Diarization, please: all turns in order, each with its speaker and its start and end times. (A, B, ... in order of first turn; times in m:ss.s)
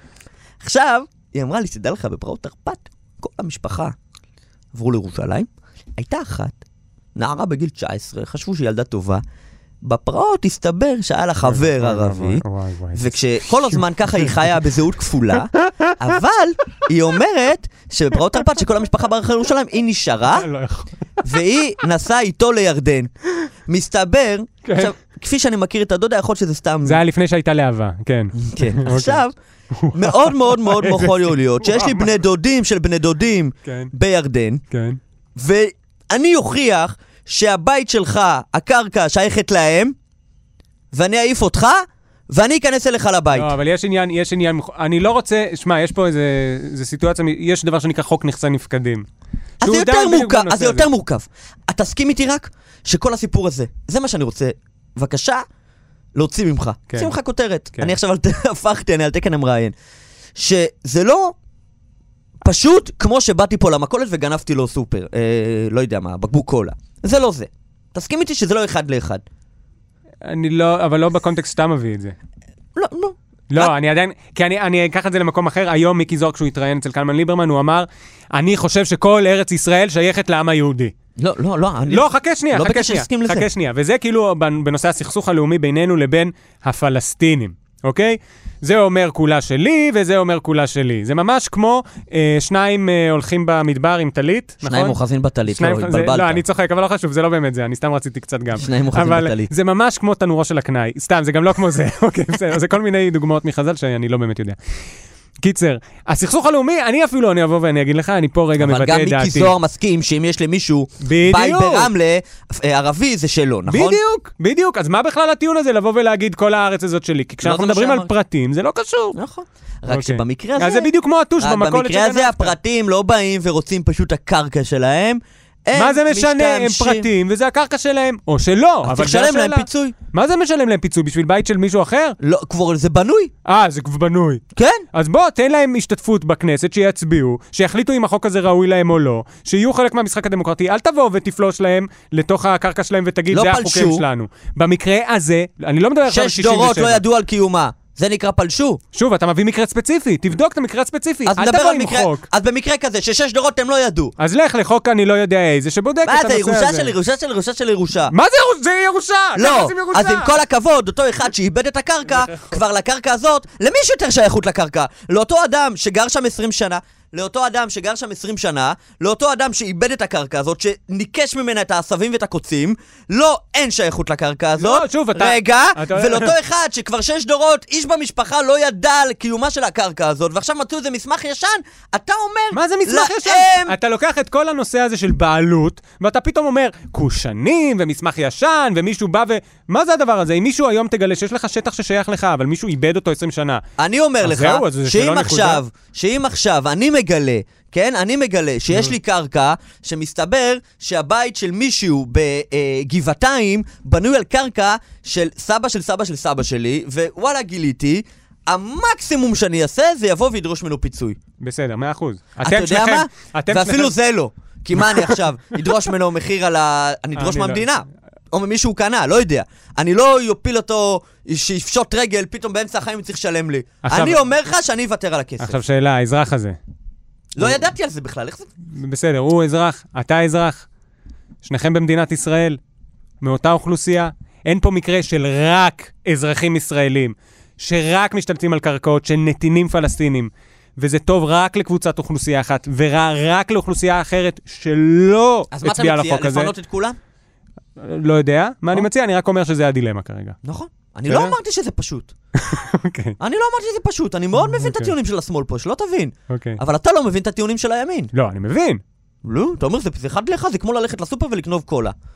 0:00.6-0:03.9 A
0:04.7-0:06.6 A
0:07.2-0:09.2 A
0:09.8-0:20.5 A
0:11.4-0:14.3 B
0:15.6-0:16.0 B
0:20.3-0:20.9 B
0:21.2-0:23.1 A
0:23.7-0:27.0 A
0:24.6-0:24.9 B
0:26.8-0:29.2 B
0:28.4-0:29.3 A
0:29.7-0:32.1 B
0:29.9-0:34.6 A
0:33.6-0:33.9 B
0:34.7-0:35.0 B
0:35.4-0:40.0 A
0:40.9-0:43.5 A
0:43.3-0:49.1 B
0:49.6-0:50.9 B
0:49.6-0:55.4 A
0:56.2-0:59.7 A
1:00.4-1:01.3 A
1:02.4-1:09.2 A
1:10.2-1:12.2 B
1:12.7-1:13.7 A
1:13.5-1:20.9 B
1:21.2-1:23.5 A
1:21.9-1:44.6 B
1:34.6-1:36.4 A
1:38.6-1:39.5 A
1:45.4-1:49.5 B
1:48.6-1:54.0 A
1:51.0-1:51.9 B
1:53.7-1:59.2 B
1:57.4-1:58.1 A
1:59.1-2:07.1 A
1:59.9-2:02.5 B
2:05.7-2:12.2 B
2:08.8-2:09.9 A
2:12.2-2:13.3 A
2:13.4-2:14.4 B
2:14.5-2:14.8 A
2:14.9-2:27.0 B
2:23.3-2:24.0 A
2:26.1-2:28.8 A
2:28.9-2:32.2 B
2:31.2-2:34.1 A
2:34.2-2:36.9 B
2:36.0-2:38.1 A
2:38.1-2:40.3 B
2:39.3-3:03.8 A
2:42.2-2:42.5 B
2:54.6-2:56.3 B
3:02.5-3:13.6 B
3:13.8-3:31.2 A
3:14.2-3:15.6 B
3:31.4-3:33.9 B
3:32.4-3:45.6 A
3:34.8-3:35.1 B
3:37.1-3:37.7 B
3:43.8-3:44.2 B
3:45.4-3:46.6 B
3:47.3-3:48.5 A
3:48.7-3:50.7 B
3:51.4-3:52.6 B
3:53.2-4:06.5 B
4:05.5-4:07.0 A
4:07.8-4:10.4 B
4:10.4-4:12.1 A
4:11.1-4:11.3 B
4:12.4-4:13.2 B
4:13.2-4:18.1 A
4:14.4-4:14.9 B
4:16.3-4:16.6 B
4:18.1-4:18.8 B
4:19.2-4:21.9 A